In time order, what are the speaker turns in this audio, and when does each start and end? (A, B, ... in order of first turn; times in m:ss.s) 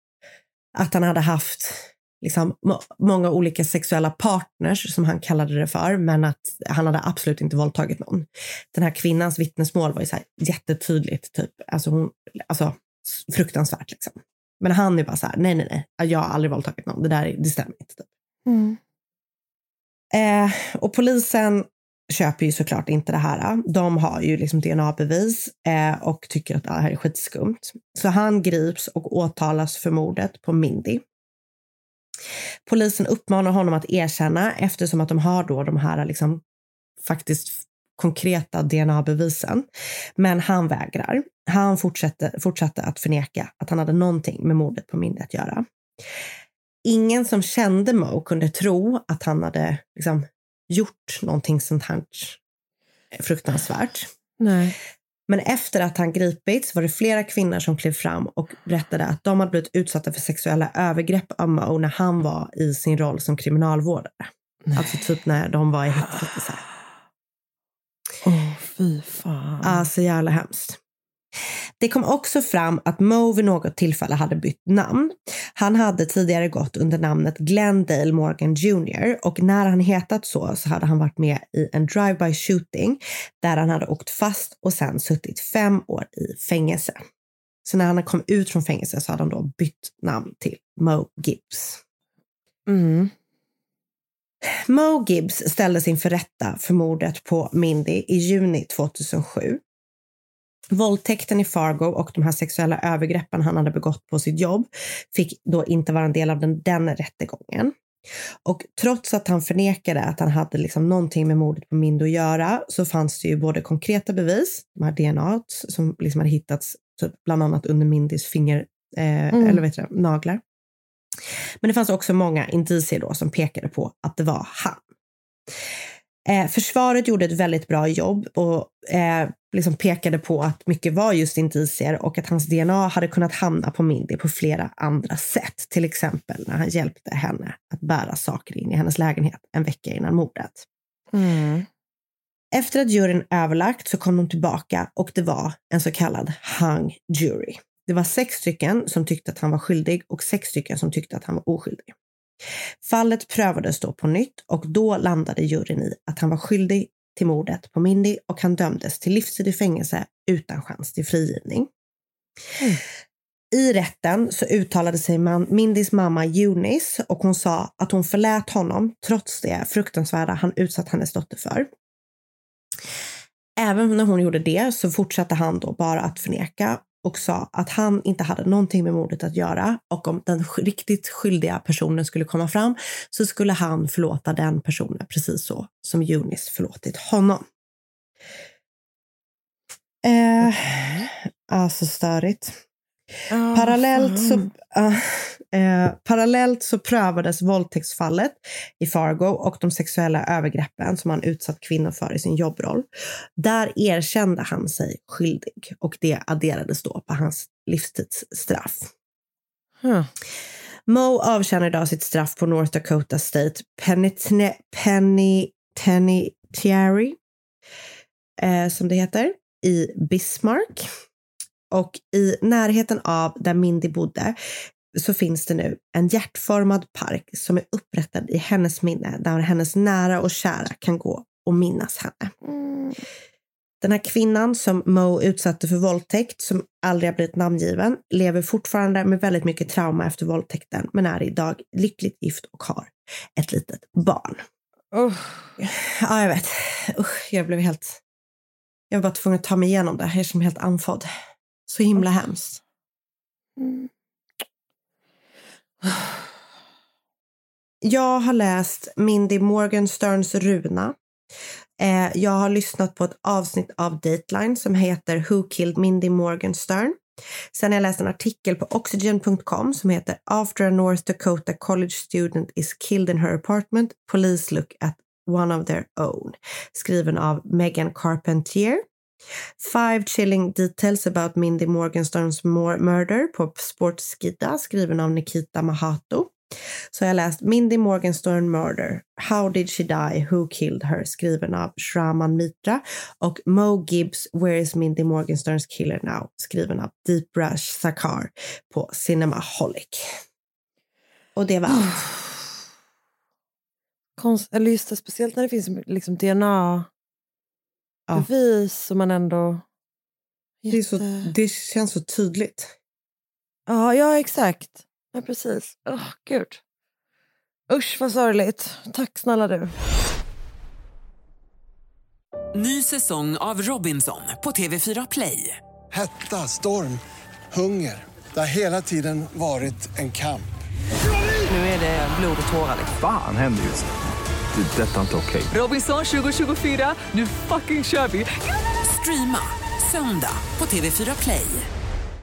0:00.7-0:18.1 A
0:18.4-0:18.8 B
0:20.1-0:31.0 A
0:32.6-0:36.4 A
0:37.0-0:39.6 A
0:40.2-0:45.6 A
0:46.8-0:52.4 A
0:53.1-0:54.1 A
0:54.4-0:54.7 B
0:55.3-1:06.6 A
1:08.2-1:09.8 B
1:09.6-1:10.8 A
1:11.8-1:27.0 A
1:27.6-1:31.8 A
1:32.7-1:33.1 B
1:34.5-1:39.6 A
1:40.7-1:47.7 A
1:48.4-2:00.4 A
1:59.3-1:59.6 B
2:01.6-2:04.8 A
2:06.3-2:20.6 A
2:21.1-2:21.7 B
2:22.5-2:31.9 A
2:32.8-2:41.7 A
2:43.5-2:51.7 A
2:53.6-3:07.4 A
3:10.0-3:12.6 A
3:13.3-3:14.5 B
3:13.5-3:28.9 A
3:29.8-3:30.1 B
3:30.9-3:37.2 A
3:38.4-3:40.9 A
3:41.7-3:44.4 A
3:44.9-3:52.3 A
3:52.4-3:53.0 B
3:53.8-4:04.4 A
4:04.9-4:05.5 B
4:05.6-4:08.0 A
4:08.9-4:11.1 A
4:11.7-4:12.6 A
4:13.6-4:13.9 B
4:15.8-4:16.2 B
4:17.8-4:20.9 A
4:21.8-4:27.0 A
4:27.5-4:38.8 A
4:39.6-4:46.3 A
4:46.9-5:00.1 A
5:01.4-5:02.1 A
5:04.2-5:06.9 B
5:08.1-5:09.6 B
5:10.6-5:11.3 B
5:10.7-5:12.7 A
5:13.7-5:16.6 B
5:17.7-5:19.7 B
5:22.5-5:25.6 C
5:25.9-5:27.0 D
5:27.5-5:30.5 D
5:31.5-5:32.9 C
5:32.9-5:33.9 E
5:34.5-5:35.5 E
5:35.5-5:41.7 C